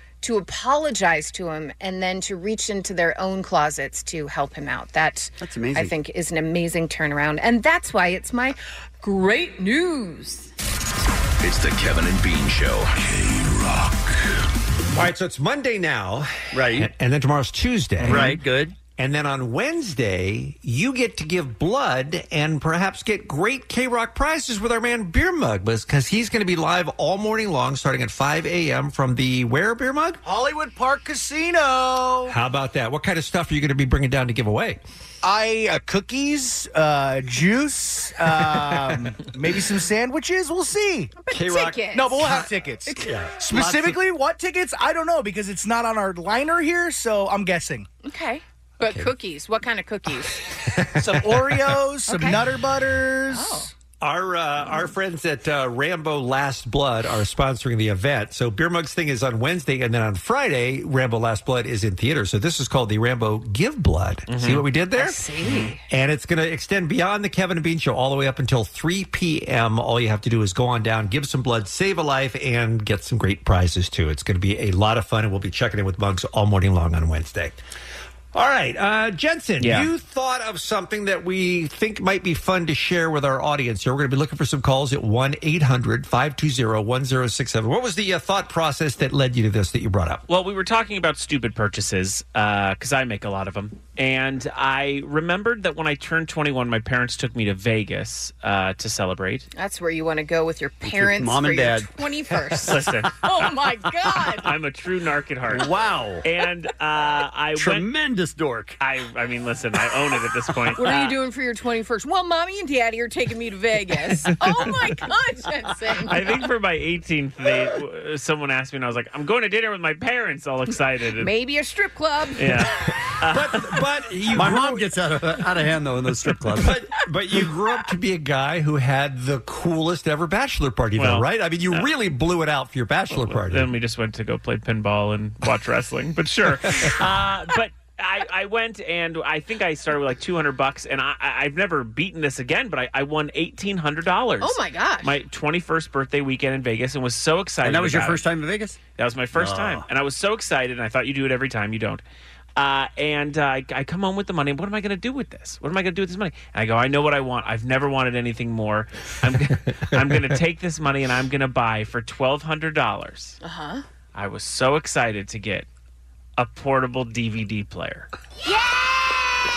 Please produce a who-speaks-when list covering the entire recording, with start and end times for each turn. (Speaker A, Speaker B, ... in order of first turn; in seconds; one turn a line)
Speaker A: 0.2-10.5
Speaker B: 5.4-5.9
Speaker C: 11.4-14.1
Speaker D: 14.9-18.4
Speaker B: 16.5-16.9
Speaker E: 18.0-18.4
Speaker B: 18.1-18.7
Speaker D: 18.9-30.2
Speaker F: 30.2-32.3
Speaker D: 32.3-34.8
Speaker F: 35.2-41.1
Speaker A: 41.2-42.3
Speaker D: 41.3-42.5
Speaker F: 41.9-47.9
Speaker D: 43.5-44.0
Speaker A: 48.0-50.4
Speaker D: 50.5-51.7
Speaker F: 51.0-53.7
Speaker A: 52.1-52.4
Speaker A: 53.3-53.7
Speaker D: 54.0-77.6
Speaker E: 64.3-64.6
Speaker A: 65.0-65.8
Speaker D: 78.3-90.2
Speaker E: 79.6-79.9
Speaker E: 90.3-99.5
Speaker A: 99.5-104.5
Speaker B: 100.8-101.9
Speaker E: 102.6-103.2
Speaker E: 104.3-105.7
Speaker B: 105.5-106.2
Speaker E: 106.2-107.9
Speaker B: 107.5-108.8
Speaker E: 108.8-111.2
Speaker A: 110.7-116.2
Speaker E: 116.1-121.3
Speaker A: 121.2-122.6
Speaker E: 122.4-123.8
Speaker D: 123.2-124.9
Speaker B: 124.3-126.7
Speaker D: 126.6-133.7
Speaker E: 131.0-131.9
Speaker E: 133.1-148.2
Speaker A: 144.4-145.1
Speaker B: 147.6-148.8
Speaker E: 148.9-152.0
Speaker B: 149.3-149.8
Speaker E: 152.6-163.3
Speaker A: 163.4-163.8
Speaker E: 164.1-165.7
Speaker E: 166.4-168.1
Speaker A: 168.5-168.8